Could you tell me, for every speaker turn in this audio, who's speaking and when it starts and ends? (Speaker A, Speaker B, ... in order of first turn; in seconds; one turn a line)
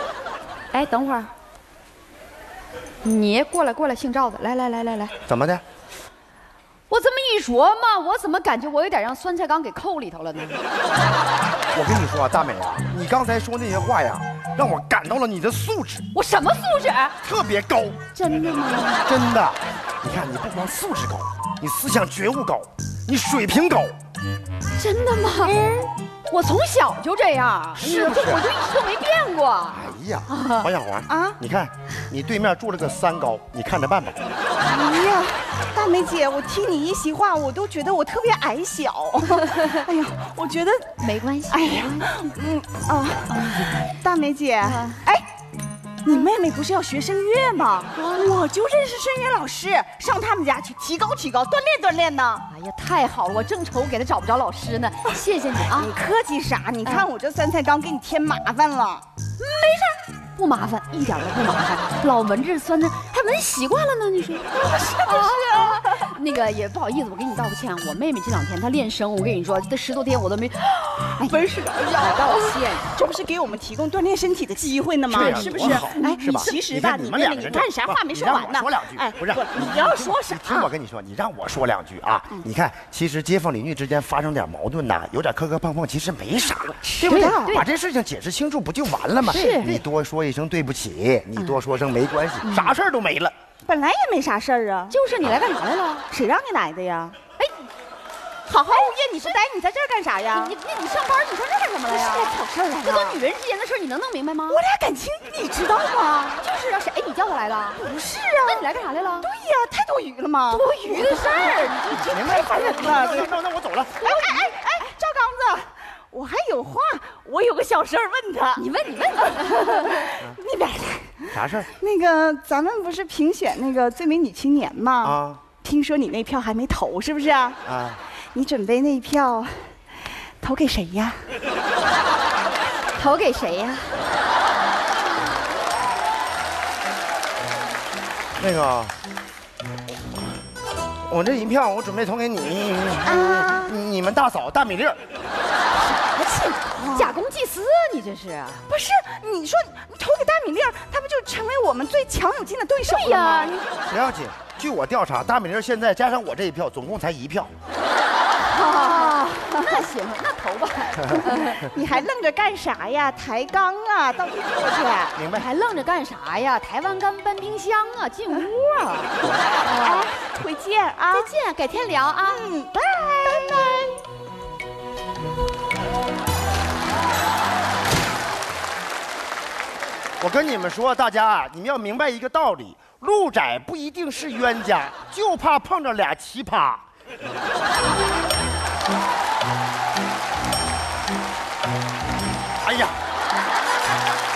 Speaker A: 0.7-1.3
Speaker A: 3.0-5.2
Speaker B: 5.3-5.6
Speaker A: 6.9-10.6
Speaker B: 11.7-16.1
Speaker A: 16.1-17.1
Speaker B: 17.2-18.0
Speaker A: 18.1-19.1
Speaker B: 19.1-23.9
Speaker A: 24.8-30.7
Speaker B: 27.8-28.4
Speaker B: 29.7-34.2
Speaker C: 31.1-31.4
Speaker C: 34.7-40.9
Speaker A: 41.0-42.3
Speaker C: 41.5-45.3
Speaker A: 43.3-43.8
Speaker A: 44.6-45.0
Speaker C: 46.0-52.5
Speaker A: 48.0-48.3
Speaker A: 52.5-55.9
Speaker C: 55.7-59.0
Speaker A: 59.4-72.8
Speaker C: 64.5-66.1
Speaker C: 71.2-80.7
Speaker B: 75.1-93.3
Speaker A: 75.2-76.5
Speaker C: 86.8-87.6
Speaker A: 87.0-87.7
Speaker A: 89.3-89.7
Speaker C: 89.3-89.8
Speaker A: 92.4-92.8
Speaker C: 93.7-95.0
Speaker A: 94.9-96.1
Speaker C: 96.1-97.2
Speaker C: 98.5-100.6
Speaker A: 100.3-104.6
Speaker C: 101.9-103.2
Speaker C: 104.5-106.4
Speaker A: 106.4-107.8
Speaker C: 107.8-113.4
Speaker A: 108.4-109.3
Speaker A: 110.5-113.0
Speaker B: 112.0-114.1
Speaker C: 114.0-118.7
Speaker A: 114.0-114.3
Speaker A: 118.6-120.1
Speaker C: 119.2-127.6
Speaker B: 121.3-121.7
Speaker B: 125.0-125.4
Speaker B: 127.7-128.0
Speaker C: 128.3-131.2
Speaker A: 132.9-134.1
Speaker B: 138.4-138.9
Speaker B: 141.1-145.0
Speaker C: 143.0-143.8
Speaker C: 145.7-147.2
Speaker A: 146.9-148.6
Speaker C: 148.7-153.6
Speaker A: 152.9-153.7
Speaker B: 153.9-157.5
Speaker A: 158.4-161.6
Speaker C: 158.6-159.9
Speaker C: 161.1-165.2
Speaker B: 165.2-165.5
Speaker A: 165.3-170.1
Speaker C: 169.5-171.3
Speaker A: 171.1-173.9
Speaker C: 172.3-174.0
Speaker B: 180.2-186.8
Speaker B: 192.6-193.0